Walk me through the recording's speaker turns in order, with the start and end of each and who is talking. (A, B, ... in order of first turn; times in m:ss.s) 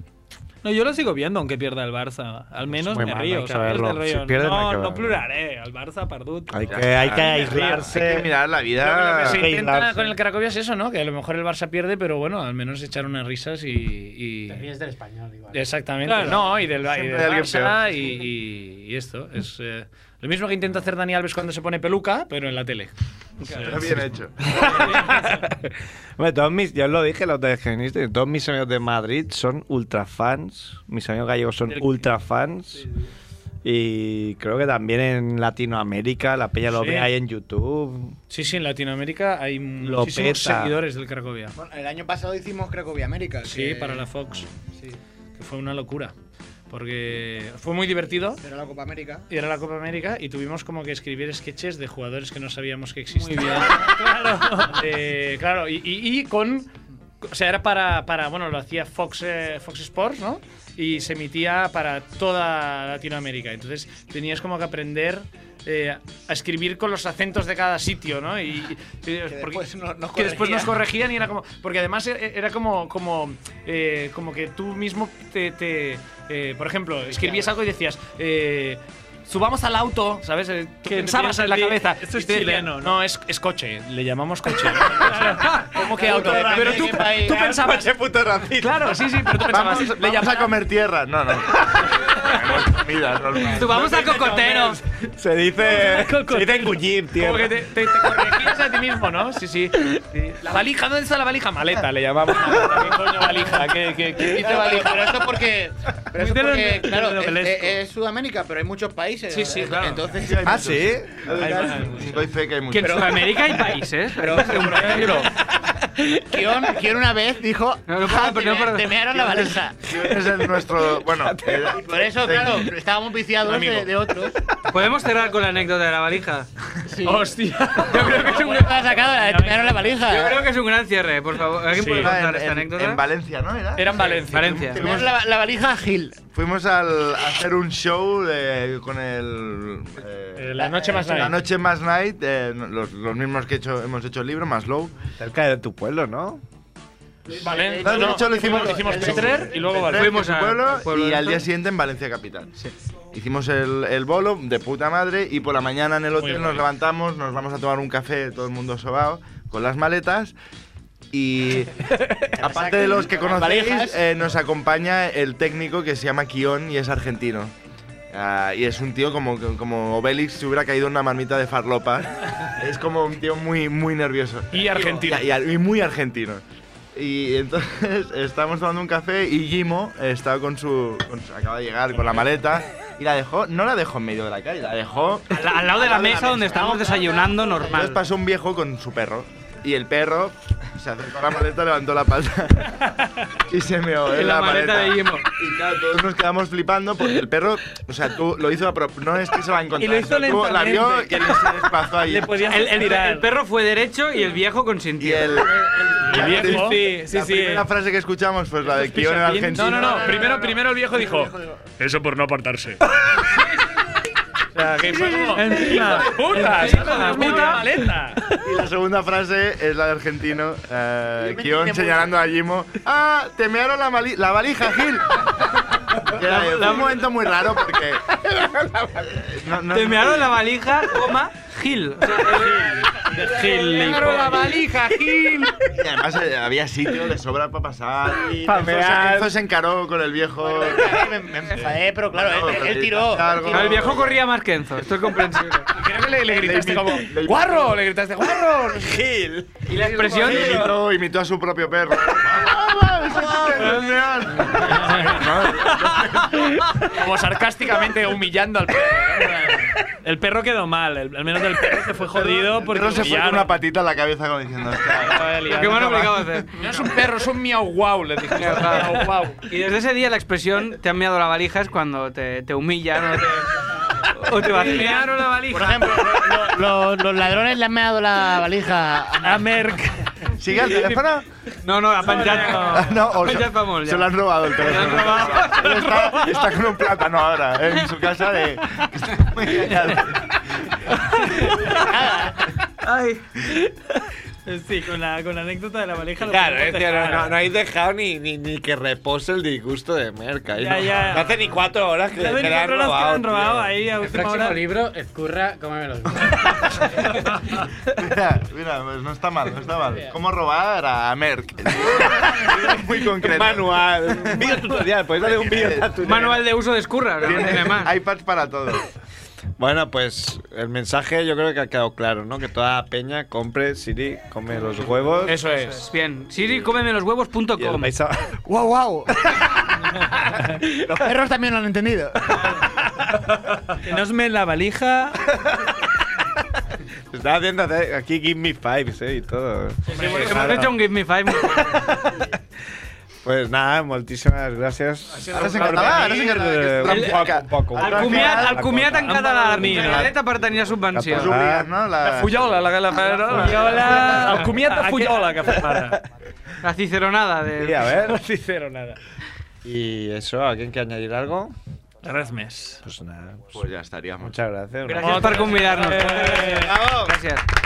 0:00.6-0:08.0 A
0:02.7-0:05.2 B
0:06.5-0:10.1 B
0:06.6-0:09.5 C
0:09.1-0:14.7 D
0:14.5-0:15.7 E
0:15.5-0:22.9 D
0:16.0-0:16.4 A
0:16.8-0:17.8 C
0:23.4-0:24.0 D
0:23.5-0:23.8 A
0:23.5-0:24.9 C
0:24.5-0:32.9 B
0:24.8-0:25.4 A
0:33.6-0:38.2 B
0:36.7-0:37.1 D
0:38.3-0:41.6 D
0:39.8-0:40.8 B
0:41.6-0:44.1 F
0:43.4-0:44.5 D
0:45.4-0:46.1 D
0:46.7-0:48.4 D
0:48.4-0:49.2 F
0:49.3-0:53.9 D
0:53.1-0:54.8 A
0:54.6-0:56.7 D
0:57.2-1:27.9 D
1:09.3-1:10.8 F
1:17.2-1:17.5 F
1:20.8-1:23.0 A
1:24.9-1:25.8 A
1:25.7-1:29.0 B
1:25.8-1:27.4 F
1:28.5-1:30.5 D
1:29.5-1:34.1 C
1:33.4-1:34.8 G
1:33.6-1:38.1 B
1:35.6-1:36.8 A
1:37.1-1:45.1 D
1:44.2-1:50.7 F
1:46.1-1:47.8 A
1:49.3-1:49.8 D
1:49.4-1:49.6 G
1:49.6-1:53.3 C
1:50.4-1:52.1 B
1:52.7-1:55.3 G
1:52.8-1:53.7 F
1:54.2-1:55.3 F
1:56.1-1:59.9 F
1:57.9-1:59.0 G
1:59.1-2:02.7 C
2:00.0-2:01.8 B
2:01.7-2:04.4 F
2:04.7-2:06.5 G
2:06.9-2:10.4 F
2:07.0-2:08.4 D
2:07.8-2:13.0 G
2:11.8-2:12.2 D
2:11.9-2:15.0 C
2:13.8-2:15.0 D
2:14.3-2:14.8 G
2:14.7-2:16.2 F
2:16.3-2:24.9 C
2:20.4-2:21.4 D
2:20.6-2:21.2 F
2:25.2-2:26.4 B
2:27.3-2:30.2 D
2:27.4-2:27.8 F
2:27.8-2:32.5 C
2:28.6-2:28.9 F
2:28.9-2:29.4 B
2:29.9-2:31.4 G
2:33.1-2:40.3 C
2:36.2-2:36.6 D
2:41.1-2:41.8 C
2:42.4-2:44.0 F
2:42.4-2:47.5 C
2:48.1-2:56.4 C
2:54.5-2:55.2 D
2:56.9-3:06.9 C
3:05.3-3:08.0 G
3:05.6-3:07.6 F
3:07.5-3:12.9 C
3:13.4-3:22.3 C
3:14.1-3:15.3 G
3:19.8-3:23.3 A
3:22.4-3:25.4 G
3:25.0-3:30.4 C
3:26.0-3:26.8 D
3:26.1-3:27.7 A
3:28.6-3:30.4 A
3:29.5-3:33.4 D
3:30.0-3:31.5 F
3:34.5-3:38.2 D
3:35.3-3:37.7 A
3:35.4-3:37.6 G
3:38.4-3:45.3 C
3:41.2-3:42.1 F
3:45.9-3:48.1 C
3:46.2-3:47.0 G
3:48.2-3:49.0 B
3:49.0-3:50.4 C
3:49.7-3:52.8 G
3:53.2-3:54.5 A
3:53.4-3:55.3 F
3:53.4-3:55.1 D
3:53.5-3:54.4 G
3:55.7-4:01.0 C
3:58.4-3:59.3 B
4:00.4-4:04.1 F
4:01.6-4:04.2 C
4:03.5-4:05.7 G
4:05.7-4:08.9 D
4:06.3-4:07.8 C
4:07.5-4:07.9 F
4:08.6-4:10.8 B
4:09.7-4:10.7 D
4:09.9-4:16.5 C
4:10.0-4:10.4 A
4:12.4-4:13.9 B
4:14.4-4:14.8 B
4:16.8-4:19.6 D
4:18.9-4:23.6 A
4:22.5-4:25.4 C
4:22.9-4:23.4 D
4:25.0-4:29.4 D
4:25.1-4:26.9 G
4:28.3-4:33.5 G
4:28.5-4:29.1 A
4:34.1-4:35.1 G
4:34.2-4:36.4 A
4:34.6-4:35.2 D
4:35.4-4:39.6 F
4:39.2-4:41.0 A
4:40.4-4:41.2 C
4:41.6-4:45.8 G
4:42.0-4:42.9 A
4:42.7-4:50.7 C
4:44.8-4:46.4 A
4:51.4-4:52.0 A
4:51.7-4:52.4 F
4:52.9-4:53.2 A
4:54.4-4:57.4 A
4:56.2-5:03.8 B
5:00.6-5:01.3 A
5:02.1-5:04.7 A
5:04.0-5:07.5 E
5:06.3-5:06.6 C
5:07.9-5:16.3 C
5:12.0-5:12.7 B
5:13.2-5:16.4 B
5:16.0-5:17.9 G
5:17.2-5:18.9 C
5:19.6-5:25.4 B
5:25.2-5:25.9 D
5:25.3-5:27.9 G
5:27.6-5:28.3 B
5:28.4-5:29.6 F
5:30.8-5:32.6 F
5:33.8-5:35.2 A
5:37.1-5:40.8 B
5:39.9-5:42.0 G
5:41.5-5:42.3 B
5:43.2-5:50.1 B
5:45.1-5:46.6 D
5:45.3-5:48.6 C
5:46.8-5:47.2 G
5:47.7-5:51.4 G
5:49.0-5:50.1 A
5:49.7-5:50.0 C
5:50.9-5:51.7 B
5:51.1-5:52.7 C
5:52.0-5:56.0 D
5:53.0-5:56.0 A
5:53.2-5:54.3 B
5:55.7-5:55.9 B
5:56.6-5:58.0 G
5:57.6-5:58.2 B
5:58.2-5:59.0 D
5:59.6-6:01.5 B
6:02.0-6:02.8 A
6:02.8-6:03.6 B
6:03.5-6:04.4 C
6:04.2-6:07.1 B
6:04.8-6:07.4 G
6:05.0-6:05.5 D
6:05.0-6:06.8 A